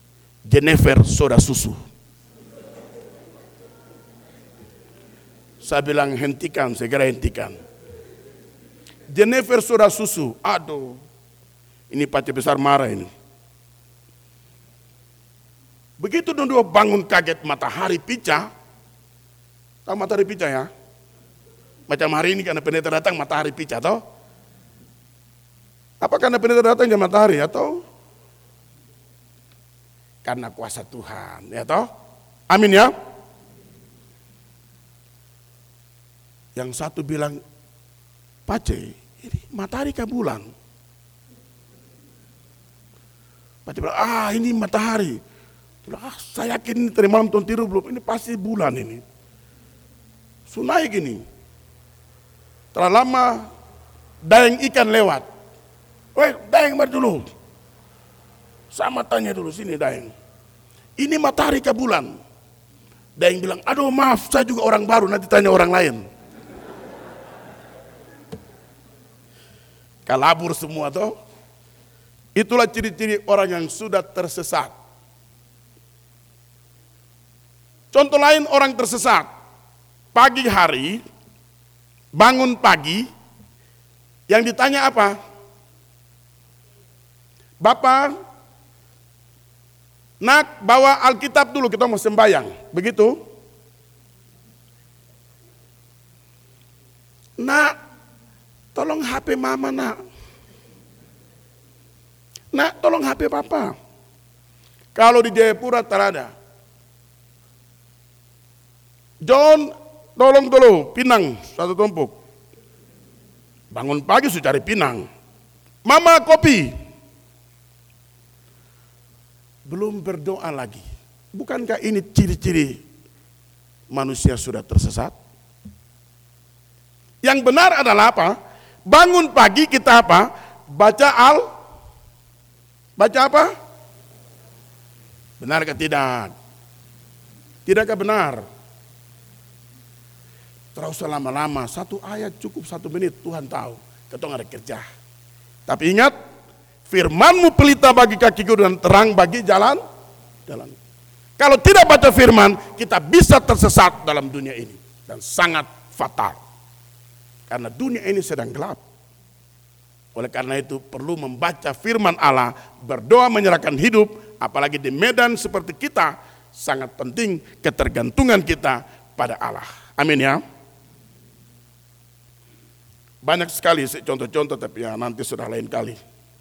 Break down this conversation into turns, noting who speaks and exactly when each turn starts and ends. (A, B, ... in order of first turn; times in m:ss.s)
0:00.5-0:01.8 A
0:05.6-0:07.6 A
0:09.1-0:11.0 A
0:11.9-0:13.1 A
0:16.0-0:18.5 A
0:19.9-0:20.7 A
0:21.9-0:24.0 A
0:26.0-0:27.8 A
0:30.2-0:31.9 A
0:32.5-0:32.9 A
0:36.6-0:37.4 A
0:38.5-0:40.5 A
0:43.7-0:45.2 A
0:45.8-0:49.0 A
0:50.5-0:51.2 A
0:52.7-0:53.5 A
0:54.2-0:55.3 A
0:56.2-0:57.3 A
0:58.7-1:00.1 A
1:01.0-1:02.2 A
1:03.2-1:06.0 A
1:10.1-1:11.2 A
1:12.4-1:14.7 A
1:17.9-1:19.3 A
1:20.1-1:21.0 A
1:22.2-1:23.1 A
1:24.3-1:25.2 A
1:27.6-1:28.2 A
1:30.2-1:33.2 A
1:37.4-1:37.8 A
1:38.8-1:40.0 A
1:42.5-1:43.8 A
1:45.0-1:46.3 A
1:49.2-1:52.2 A
1:53.7-1:55.1 A
1:55.8-1:56.7 A
1:59.7-2:02.8 A
2:03.9-2:05.1 A
2:07.2-2:08.4 A
2:08.9-2:11.5 A
2:13.0-2:13.5 A
2:15.4-2:16.3 A
2:17.7-2:18.4 A
2:20.8-2:24.8 A
2:25.7-2:26.2 A
2:26.9-2:29.8 A
2:30.5-2:30.8 A
2:31.4-2:36.4 A
2:37.5-2:38.8 A
2:40.2-2:50.4 A
2:53.2-2:56.0 A